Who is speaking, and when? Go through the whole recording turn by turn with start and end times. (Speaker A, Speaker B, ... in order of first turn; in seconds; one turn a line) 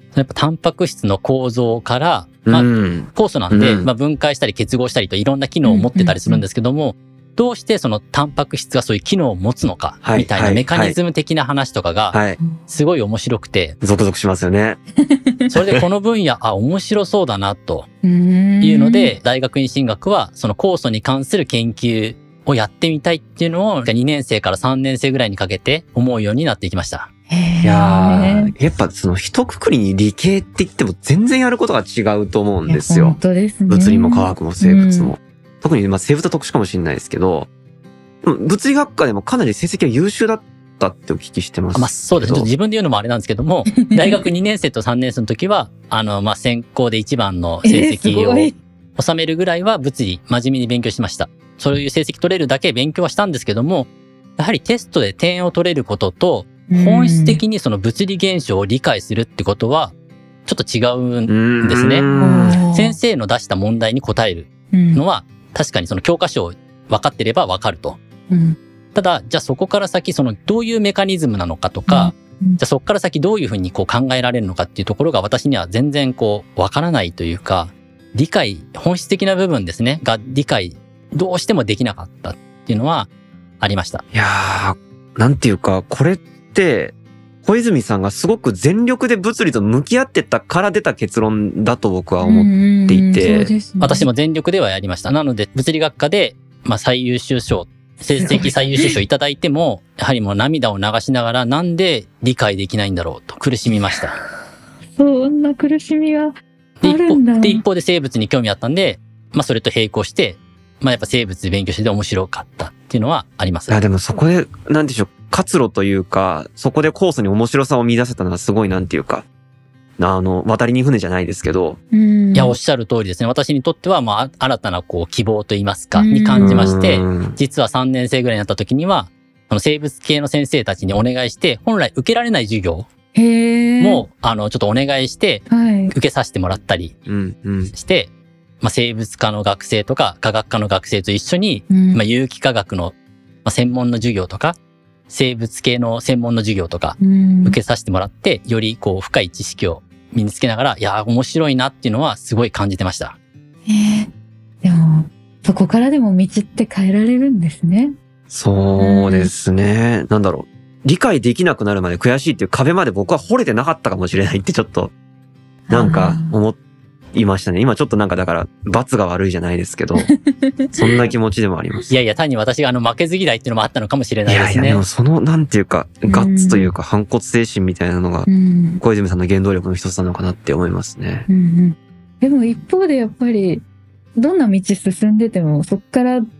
Speaker A: 0.1-13.8
Speaker B: 2.5-3.9
Speaker C: 5.6-6.4
Speaker B: 10.0-10.9
Speaker B: 12.1-12.4
Speaker B: 13.8-14.8
Speaker C: 15.0-15.5
Speaker A: 15.5-17.9
Speaker C: 18.0-19.2
Speaker A: 18.6-27.1
Speaker C: 27.3-28.5
Speaker B: 27.6-33.2
Speaker C: 32.6-35.1
Speaker B: 33.7-37.5
Speaker B: 38.2-42.5
Speaker A: 41.7-59.9
Speaker C: 43.7-44.3
Speaker C: 47.6-48.6
Speaker C: 56.7-57.4
Speaker A: 60.5-62.0
Speaker B: 61.3-62.6
Speaker C: 62.1-63.0
Speaker A: 62.7-68.0
Speaker C: 64.7-65.0
Speaker C: 68.3-68.6
Speaker A: 68.9-83.1
Speaker C: 71.9-72.6
Speaker A: 83.6-84.0
Speaker B: 84.1-93.5
Speaker C: 92.2-94.1
Speaker A: 93.8-104.2
Speaker C: 98.2-99.0
Speaker C: 104.9-107.6
Speaker A: 106.8-113.8
Speaker B: 113.7-119.3
Speaker B: 120.0-121.8
Speaker C: 121.9-122.6
Speaker A: 122.3-132.9
Speaker C: 126.0-126.7
Speaker B: 126.4-127.4
Speaker C: 133.1-134.1
Speaker A: 133.8-136.9
Speaker C: 135.5-135.9
Speaker B: 137.1-137.7
Speaker A: 137.7-144.6
Speaker C: 141.7-142.0
Speaker A: 145.1-153.2
Speaker C: 147.0-147.6
Speaker C: 153.7-154.1
Speaker C: 154.6-157.9
Speaker B: 158.3-164.9
Speaker C: 158.8-159.3
Speaker C: 165.7-166.3
Speaker B: 165.7-166.6
Speaker B: 167.1-170.1
Speaker C: 169.9-171.1
Speaker B: 170.8-171.9
Speaker A: 171.9-174.8
Speaker B: 174.2-178.3
Speaker C: 176.1-176.7
Speaker C: 178.3-178.8
Speaker B: 178.8-181.3
Speaker C: 181.3-183.6
Speaker C: 184.2-186.2